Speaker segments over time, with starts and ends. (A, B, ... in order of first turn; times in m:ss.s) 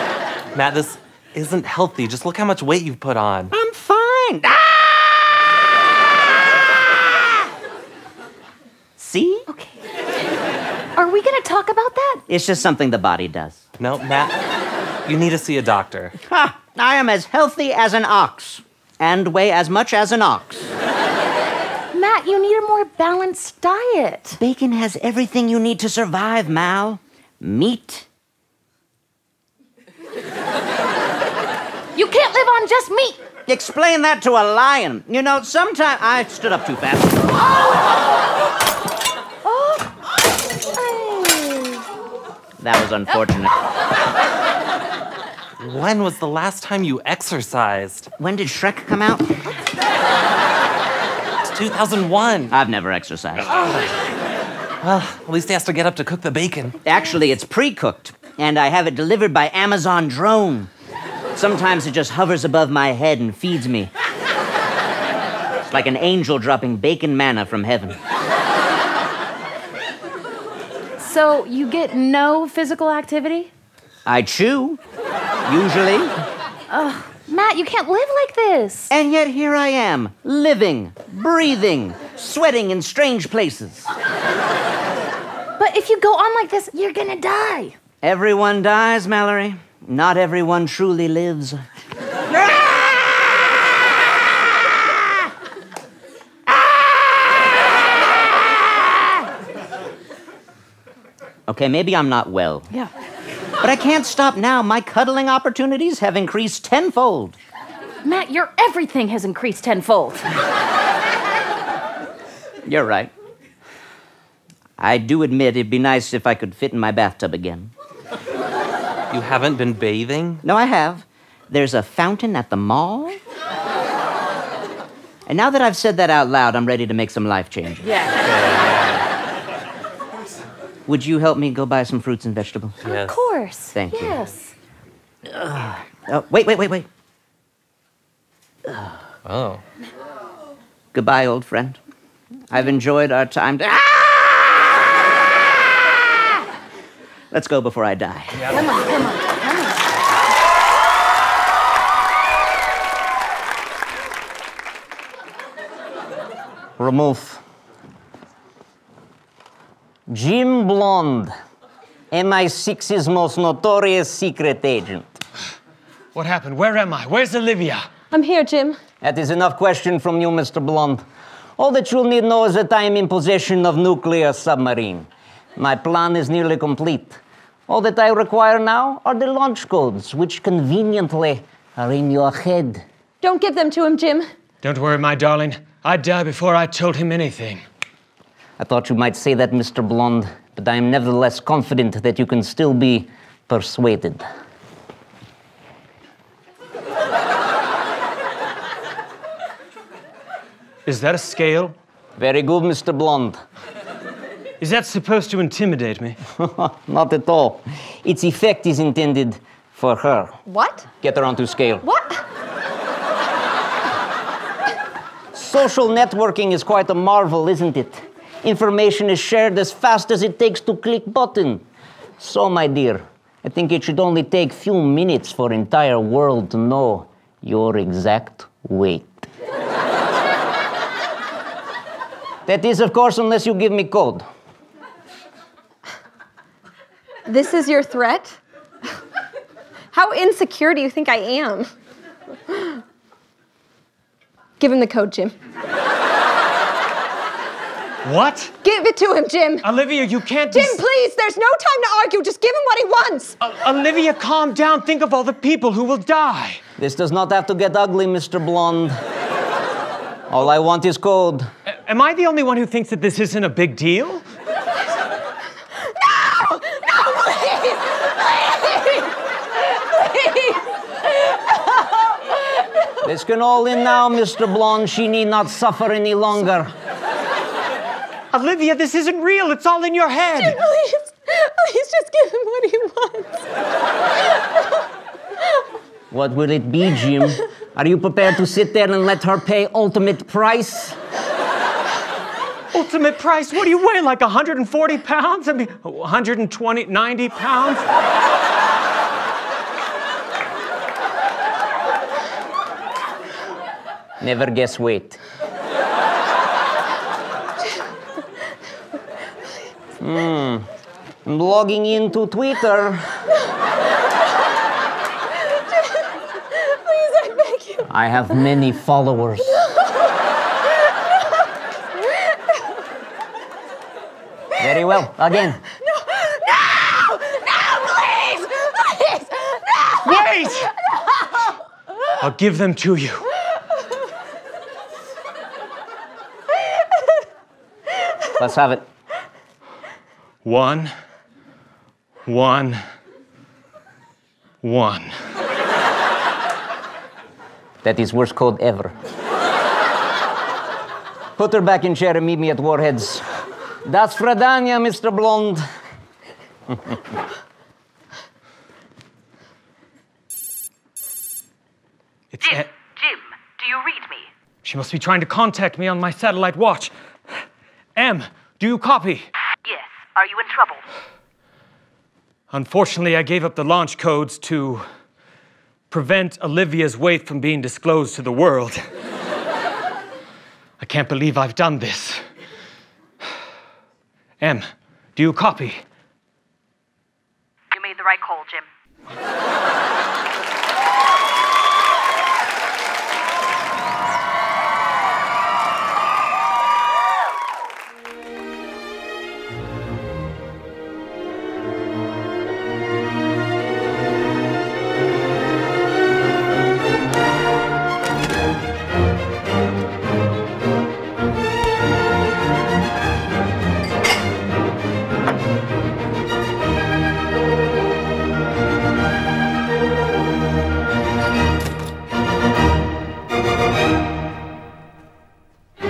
0:00.5-0:03.5 A
0:03.5-0:05.4 B
0:09.0-0:09.4 B
0:09.5-0:09.8 C
0:11.0-0:12.2 C
0:12.3-0:13.6 B
0:13.8-0:14.4 A
0:15.0-0:16.2 A
0:16.2-0:20.7 B
0:21.9-0:24.4 C
0:24.4-0:28.1 B
0:31.9-0:33.2 C
0:33.5-0:37.2 B
0:39.4-0:39.8 C
0:40.6-0:41.8 C
0:42.6-0:43.5 B
0:45.6-0:48.1 A
0:48.2-0:49.4 B
0:51.4-0:52.6 A
0:52.5-0:53.5 B
0:53.4-0:53.9 A
0:54.8-0:56.8 A
0:56.8-1:00.7 B
1:01.3-1:03.9 B
1:05.7-1:08.0 B
1:11.0-1:13.5 C
1:14.0-1:14.8 B
1:15.4-1:16.1 B
1:16.7-1:18.9 C
1:18.9-1:23.9 B
1:25.6-1:27.7 C
1:28.0-1:31.6 B
1:32.3-1:32.9 B
1:36.5-1:37.1 B
1:41.5-1:42.7 B
1:43.6-1:47.4 B
1:48.0-1:50.3 C
1:52.6-1:53.1 B
1:54.8-1:57.7 B
1:59.1-2:00.4 A
2:00.4-2:03.2 B
2:05.3-2:07.9 B
2:07.8-2:08.1 C
2:08.1-2:09.0 A
2:10.8-2:12.8 B
2:12.8-2:14.5 C
2:12.8-2:13.2 A
2:13.7-2:14.2 B
2:15.2-2:16.9 B
2:19.2-2:19.6 A
2:20.9-2:21.8 B
2:22.5-2:24.9 B
2:27.3-2:28.5 B
2:28.4-2:29.9 C
2:36.8-2:37.4 B
2:40.1-2:41.3 B
2:42.1-2:45.2 B
2:46.1-2:47.8 D
2:48.1-2:48.8 E
2:49.0-2:51.0 B
2:51.6-3:02.8 B
3:03.2-3:04.3 E
3:04.6-3:07.6 D
3:08.6-3:14.2 B
3:20.8-3:21.8 D
3:22.2-3:23.4 B
3:24.6-3:26.2 D
3:26.3-3:30.4 B
3:30.5-3:30.9 E
3:31.0-3:31.8 B
3:31.8-3:32.2 E
3:35.3-3:41.6 B
3:42.2-3:49.3 B
3:52.4-3:54.3 B
3:57.2-3:58.4 E
3:59.9-4:01.7 E
4:02.5-4:02.8 E
4:04.6-4:05.4 E
4:08.0-4:08.5 D
4:08.6-4:09.7 E
4:09.6-4:10.8 D
4:10.5-4:13.4 E
4:13.4-4:16.6 D
4:16.8-4:19.0 B
4:20.3-4:21.5 B
4:21.7-4:24.2 D
4:26.0-4:29.1 E
4:29.7-4:30.6 E
4:33.0-4:36.7 B
4:38.3-4:40.6 D
4:40.3-4:43.5 E
4:46.1-4:51.0 B
4:52.7-4:57.9 D
5:04.2-5:05.2 B
5:10.0-5:10.7 B
5:11.2-5:13.2 B
5:15.5-5:17.9 E
5:17.9-5:19.6 B
5:19.6-5:19.8 E
5:24.6-5:25.6 B
5:25.8-5:30.7 E
5:30.0-5:30.7 D
5:32.2-5:33.2 D
5:38.4-5:38.8 B
5:40.4-5:40.9 D
5:42.2-5:42.8 D
5:44.6-5:45.1 D
5:47.8-5:48.9 B
5:51.4-5:53.2 B
5:53.8-5:55.6 B
6:02.3-6:02.7 D
6:02.4-6:04.3 F
6:04.6-6:06.9 D
6:08.0-6:09.3 D
6:09.6-6:10.8 F
6:12.5-6:14.9 D
6:15.9-6:18.8 D
6:20.8-6:22.2 D
6:24.4-6:25.8 D
6:27.7-6:28.6 F